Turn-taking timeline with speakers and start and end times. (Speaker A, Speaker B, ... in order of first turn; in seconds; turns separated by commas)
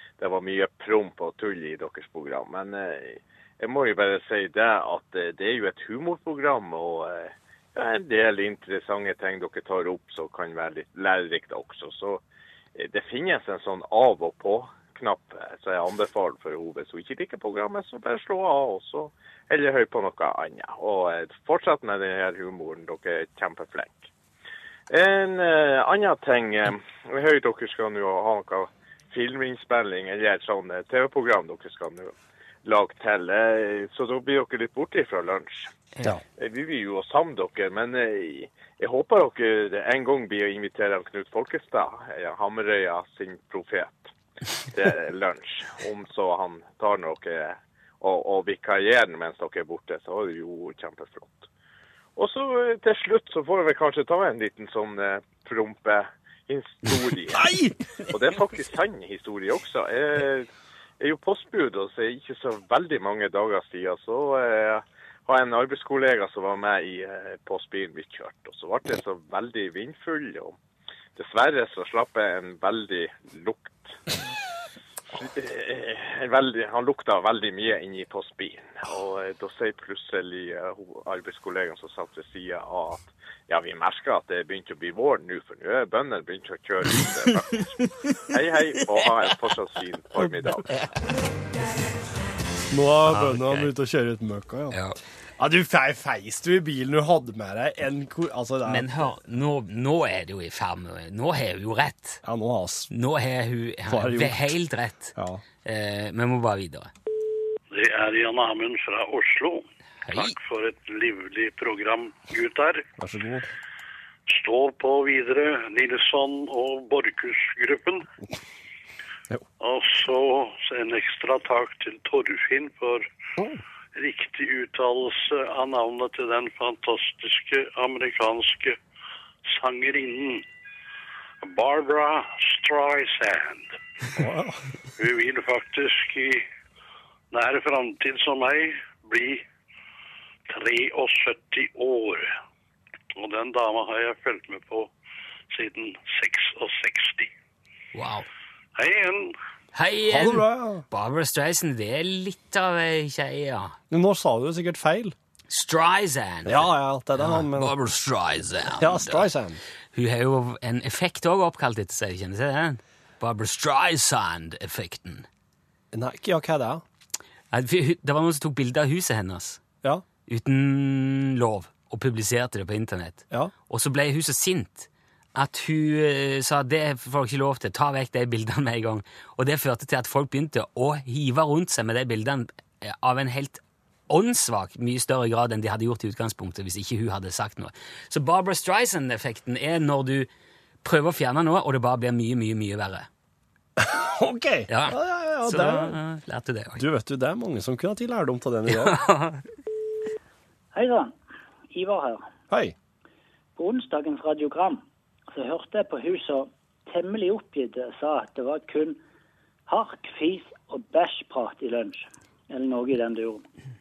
Speaker A: 0.2-12.2, Speaker A: 12.8-24.1, Speaker A: 24.9-32.1, Speaker A: 32.6-35.7, Speaker A: 36.4-44.1, Speaker A: 44.7-51.5, Speaker A: 52.2-57.5, Speaker B: 57.3-57.7, Speaker A: 58.1-60.5, Speaker A: 61.0-70.5, Speaker A: 71.2-74.0, Speaker A: 75.1-87.7, Speaker A: 88.3-90.7, Speaker B: 92.7-94.8, Speaker C: 93.1-93.7, Speaker C: 94.7-95.0, Speaker B: 95.4-98.9, Speaker C: 98.7-102.2, Speaker B: 102.2-102.9, Speaker C: 102.9-105.1, Speaker B: 103.9-104.5, Speaker B: 105.2-105.4, Speaker C: 105.7-106.9, Speaker D: 107.7-109.6, Speaker C: 110.1-110.4, Speaker D: 110.2-112.8, Speaker B: 113.0-113.5, Speaker D: 114.3-118.0, Speaker D: 119.6-123.1, Speaker D: 124.0-128.8, Speaker D: 129.5-130.4, Speaker D: 131.4-133.8, Speaker B: 134.2-134.6, Speaker D: 135.0-136.4, Speaker D: 137.3-139.4, Speaker D: 140.5-142.3, Speaker D: 143.2-144.9, Speaker D: 145.5-147.3, Speaker C: 147.9-148.3, Speaker D: 148.8-149.3, Speaker C: 149.7-153.8, Speaker B: 150.1-150.8, Speaker B: 153.9-155.2, Speaker C: 155.5-159.3, Speaker B: 156.4-157.7, Speaker B: 158.8-159.6, Speaker C: 159.9-165.3, Speaker B: 165.9-166.8, Speaker C: 167.5-169.6, Speaker C: 170.3-190.3, Speaker C: 190.8-193.1, Speaker B: 193.8-196.0, Speaker C: 194.7-196.8, Speaker B: 196.8-199.0, Speaker C: 198.7-199.4, Speaker E: 200.7-201.2, Speaker E: 201.7-202.2, Speaker E: 203.6-204.8, Speaker E: 205.3-209.0, Speaker E: 209.7-213.4